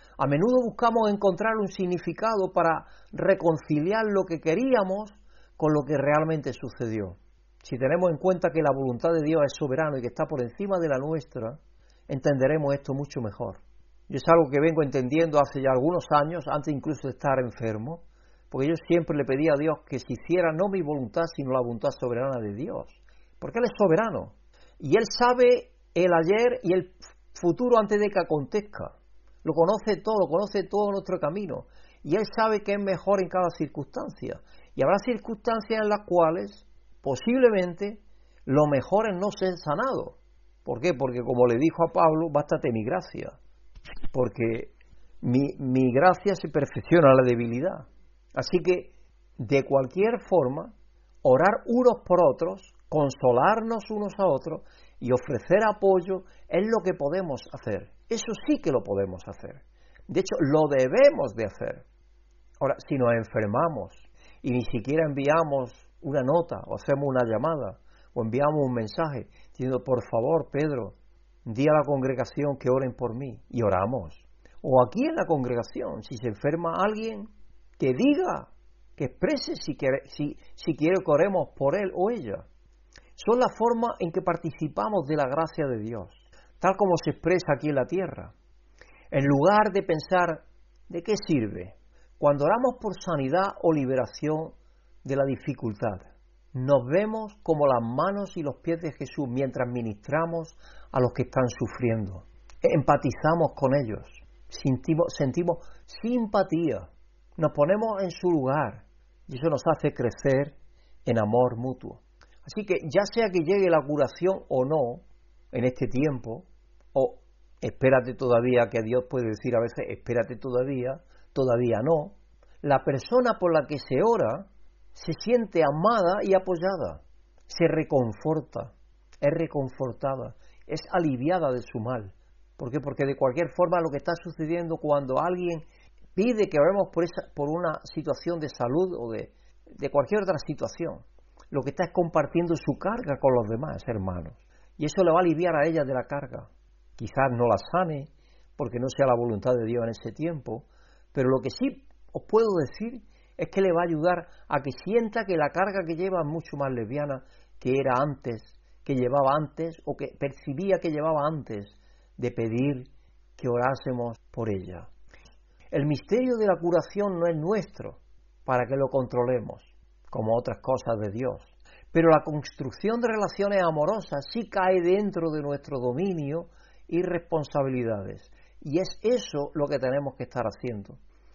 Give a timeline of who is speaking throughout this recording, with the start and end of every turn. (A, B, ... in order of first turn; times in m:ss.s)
0:00.2-0:43.3 A
0:44.1-1:01.8 A
1:02.6-1:22.5 A
1:23.2-1:28.3 A
1:29.1-2:15.6 A
2:16.2-2:44.9 A
2:45.7-3:01.0 A